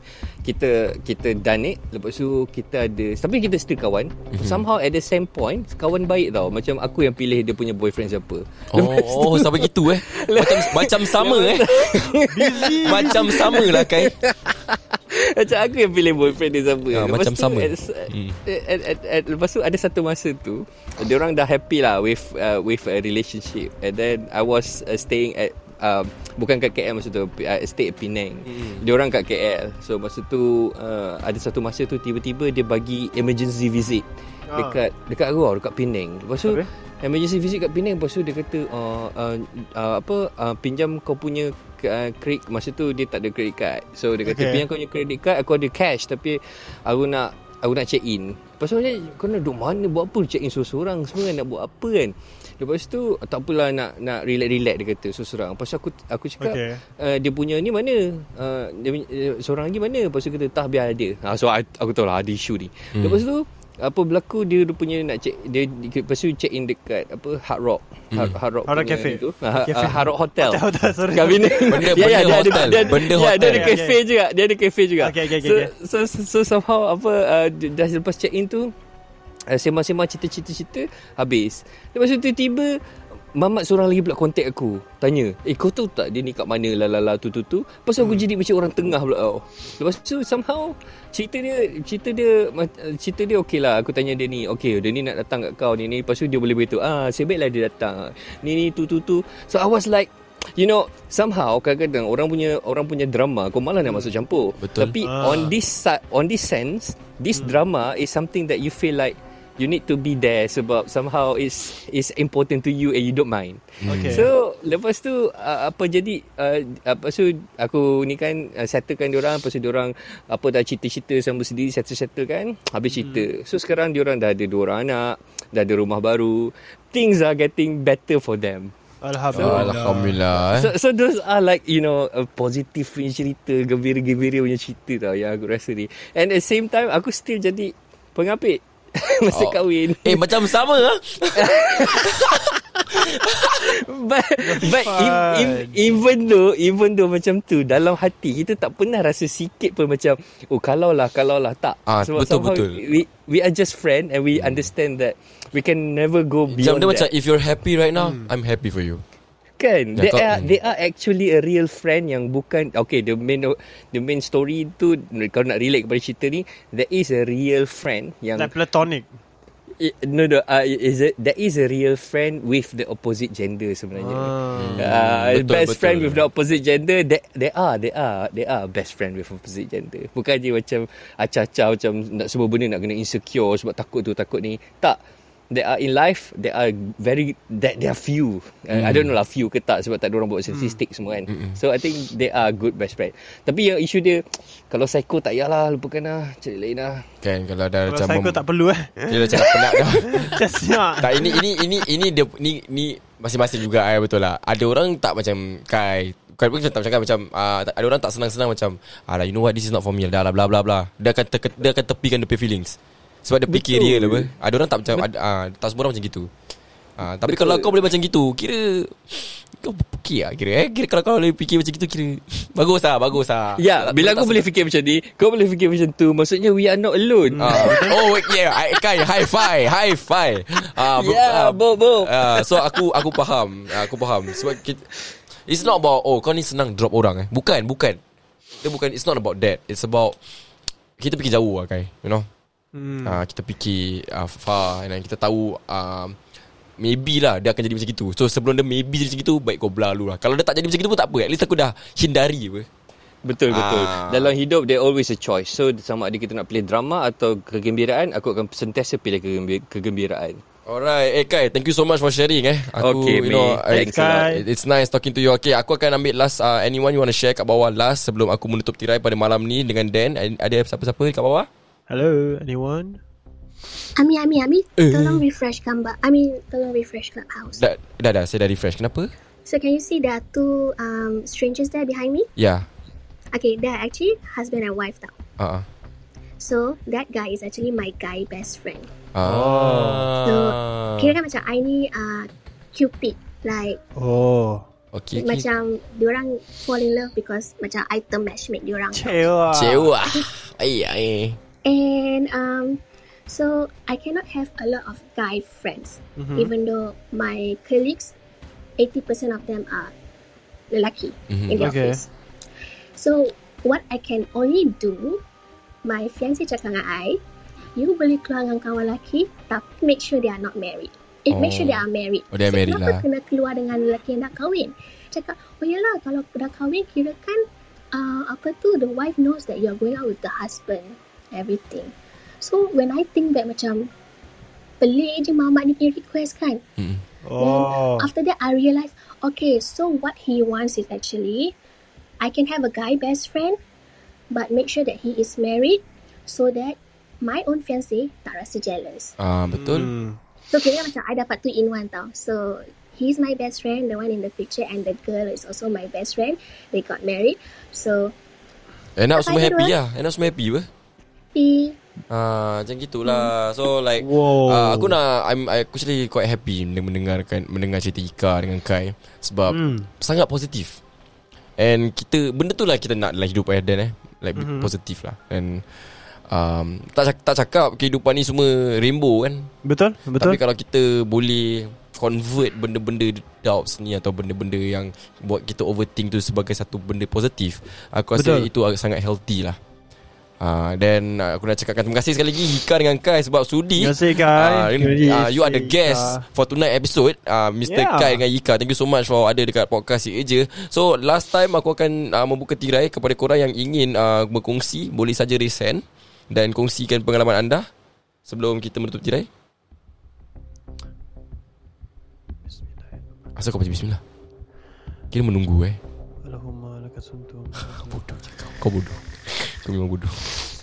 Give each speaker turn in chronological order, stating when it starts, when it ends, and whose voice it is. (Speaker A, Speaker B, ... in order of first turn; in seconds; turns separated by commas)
Speaker A: 0.4-78.7, Speaker B: 4.3-4.6, Speaker B: 8.7-12.1, Speaker C: 12.2-13.7, Speaker B: 12.8-14.2, Speaker B: 16.9-18.4, Speaker B: 28.5-28.8, Speaker C: 34.5-34.8, Speaker C: 44.2-44.6, Speaker C: 56.4-56.8, Speaker B: 62.9-63.2, Speaker B: 68.1-68.4, Speaker C: 68.7-74.0, Speaker B: 71.7-73.8, Speaker C: 75.0-75.7, Speaker A: 79.5-82.8, Speaker A: 83.3-128.7, Speaker C: 88.0-88.2, Speaker B: 104.6-104.9, Speaker C: 105.0-105.5, Speaker B: 113.8-114.3, Speaker C: 113.8-114.3, Speaker C: 123.0-123.3, Speaker C: 129.0-130.2, Speaker B: 129.3-130.7, Speaker A: 129.3-129.8, Speaker A: 130.5-140.4, Speaker B: 139.3-143.7, Speaker A: 141.3-157.1, Speaker C: 144.4-145.8, Speaker B: 151.8-152.8, Speaker B: 154.3-154.7, Speaker B: 156.5-159.0, Speaker A: 159.6-168.5, Speaker B: 159.9-160.5, Speaker C: 168.3-169.1, Speaker A: 169.8-185.0, Speaker C: 174.0-174.8, Speaker B: 174.5-176.3, Speaker A: 185.5-197.1, Speaker B: 188.7-189.1, Speaker C: 190.5-190.8, Speaker B: 191.3-191.6, Speaker B: 197.2-198.4, Speaker C: 197.9-201.3, Speaker B: 199.1-200.4, Speaker B: 201.0-216.3, Speaker A: 213.5-214.3, Speaker B: 217.0-224.4, Speaker A: 217.2-217.7, Speaker A: 223.6-229.5, Speaker C: 227.3-228.0, Speaker B: 227.4-234.9, Speaker A: 230.6-233.1, Speaker A: 234.3-234.5, Speaker B: 235.4-238.0, Speaker B: 238.6-240.2, Speaker B: 241.0-242.2, Speaker C: 242.7-243.2, Speaker B: 243.0-246.2, Speaker B: 246.8-252.7, Speaker A: 253.2-260.4, Speaker B: 253.5-254.3, Speaker B: 260.6-271.5, Speaker A: 262.8-264.2, Speaker C: 263.7-264.4, Speaker C: 271.9-273.0, Speaker D: 273.9-277.6, Speaker B: 274.8-275.2, Speaker B: 277.6-279.1, Speaker D: 279.4-282.3, Speaker B: 282.4-282.7, Speaker D: 283.3-285.1, Speaker B: 285.4-285.6, Speaker D: 286.4-288.9, Speaker B: 289.1-291.1, Speaker C: 289.2-290.1, Speaker D: 290.2-293.8, Speaker C: 293.9-294.7, Speaker B: 294.9-295.5, Speaker D: 295.1-299.3, Speaker C: 298.9-299.9, Speaker B: 299.5-301.4, Speaker D: 301.6-308.1, Speaker C: 306.2-306.5, Speaker D: 308.8-309.9, Speaker D: 310.7-312.1, Speaker B: 311.3-311.7, Speaker C: 311.6-312.0, Speaker D: 312.9-315.2, Speaker D: 315.8-317.2, Speaker D: 317.8-333.9, Speaker B: 321.3-323.1, Speaker D: 334.8-336.6, Speaker C: 337.2-338.1, Speaker D: 337.4-341.5, Speaker D: 342.2-343.6, Speaker D: 344.3-349.1, Speaker B: 349.2-349.9, Speaker C: 349.5-350.2, Speaker D: 350.5-358.1, Speaker B: 358.9-360.7, Speaker D: 359.1-359.7, Speaker D: 361.3-361.8, Speaker B: 362.1-370.8, Speaker D: 363.1-363.3, Speaker C: 364.0-364.9, Speaker C: 369.5-369.9, Speaker B: 371.6-375.6, Speaker C: 374.4-374.7, Speaker B: 376.3-379.5, Speaker C: 379.6-380.4, Speaker B: 380.1-389.6, Speaker C: 388.1-388.5, Speaker B: 390.4-407.6, Speaker C: 393.8-396.2, Speaker C: 397.6-398.2, Speaker B: 408.3-409.3, Speaker C: 412.4-413.2, Speaker B: 413.4-414.0, Speaker B: 415.1-415.8, Speaker C: 416.2-418.1, Speaker B: 417.9-420.4